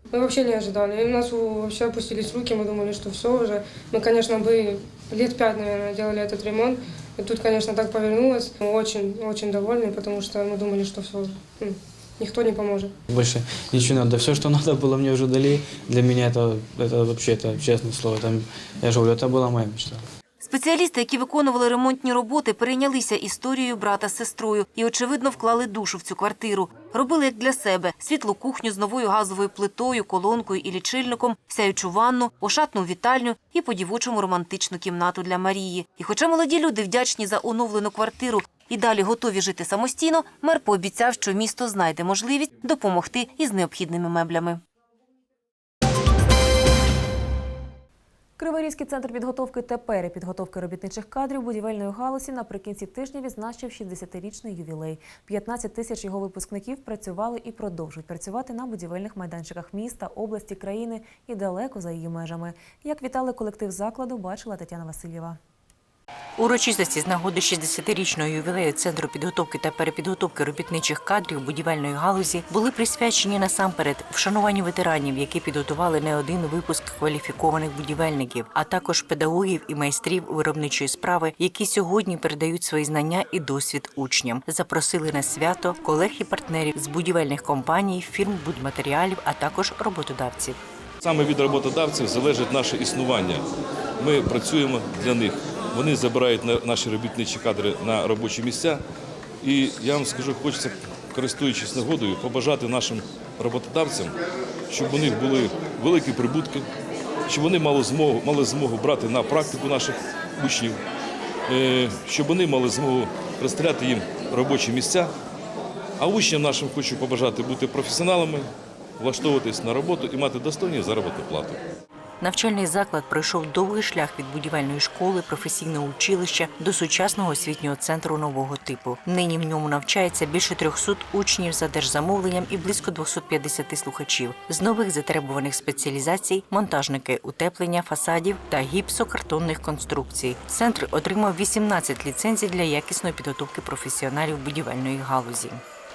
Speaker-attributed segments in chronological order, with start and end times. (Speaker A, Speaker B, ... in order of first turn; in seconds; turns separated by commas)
Speaker A: 0.1-12.9, Speaker B: 13.1-20.0, Speaker C: 20.4-44.6, Speaker D: 48.4-65.4, Speaker E: 66.4-90.6, Speaker F: 91.0-93.5, Speaker F: 94.0-98.8, Speaker F: 99.4-104.1, Speaker F: 104.7-106.7, Speaker F: 107.3-110.8, Speaker F: 111.5-115.1, Speaker F: 116.0-118.5, Speaker F: 119.0-121.6, Speaker E: 122.2-145.6